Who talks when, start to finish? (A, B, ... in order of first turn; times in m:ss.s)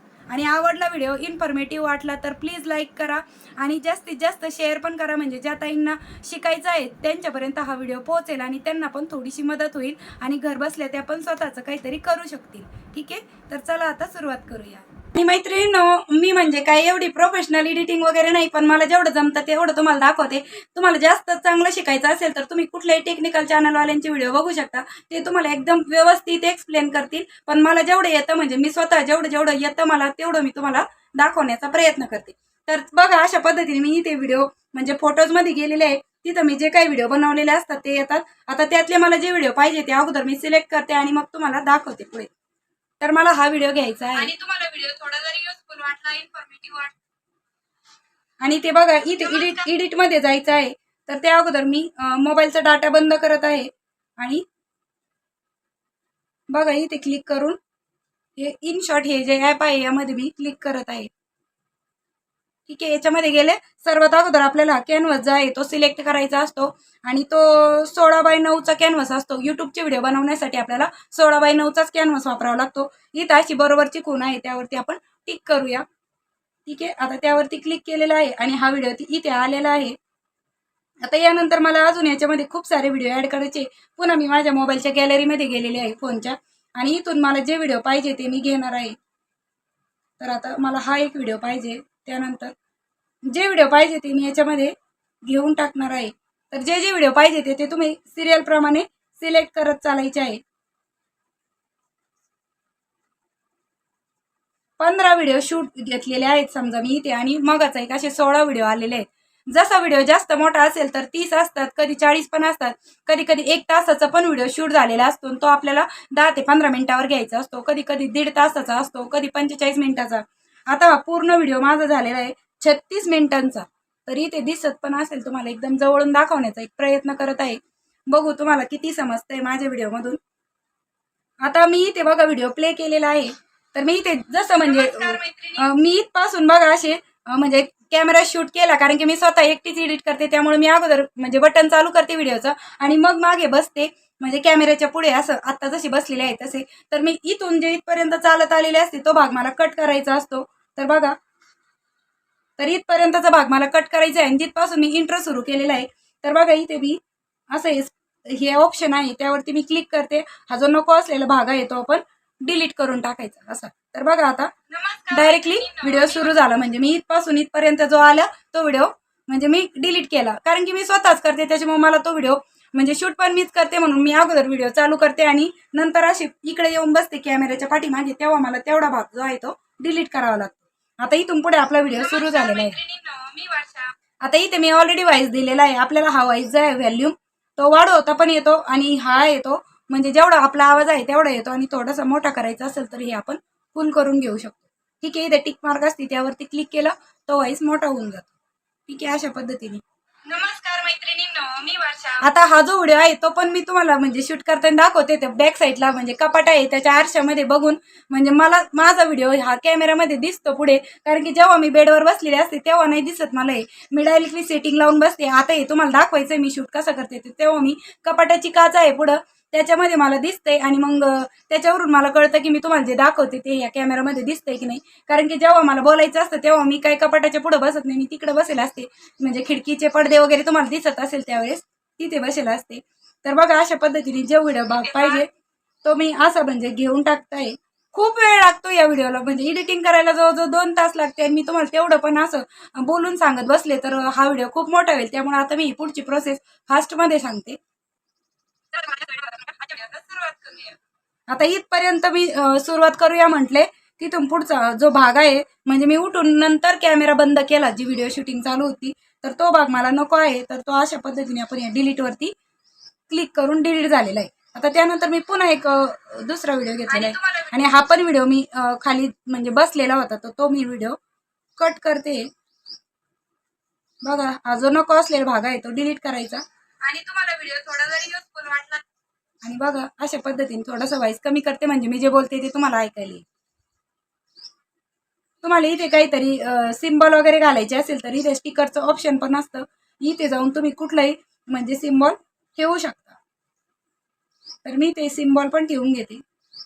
0:00.3-0:42.3 A
0:43.0-0:44.3 A
0:44.2-0:46.9 B
0:48.4-0:54.4 A
0:56.5-0:57.6 A
0:58.4-1:01.1 A
1:02.7-1:15.8 A
1:16.7-1:20.0 A
1:21.0-1:29.0 A
1:30.2-1:32.6 A
1:33.3-1:34.7 A
1:35.2-1:40.4 A
1:44.8-2:10.2 A
2:11.4-2:31.2 A
2:14.6-2:15.6 B
2:32.6-2:37.0 A
2:37.5-2:44.5 A
2:44.7-2:46.4 B
2:45.1-3:02.8 A
3:02.0-3:04.0 B
3:04.2-3:18.3 A
3:18.9-3:19.8 A
3:20.3-3:22.2 B
3:22.2-3:55.3 A
3:55.8-4:07.6 A
4:08.8-4:10.4 A
4:10.3-4:10.7 B
4:11.3-4:22.3 A
4:23.1-4:31.0 A
4:26.9-4:27.6 B
4:31.6-4:32.3 A
4:34.0-4:38.8 A
4:36.9-4:37.5 B
4:39.4-4:43.2 A
4:45.4-4:53.2 A
4:54.6-4:56.2 A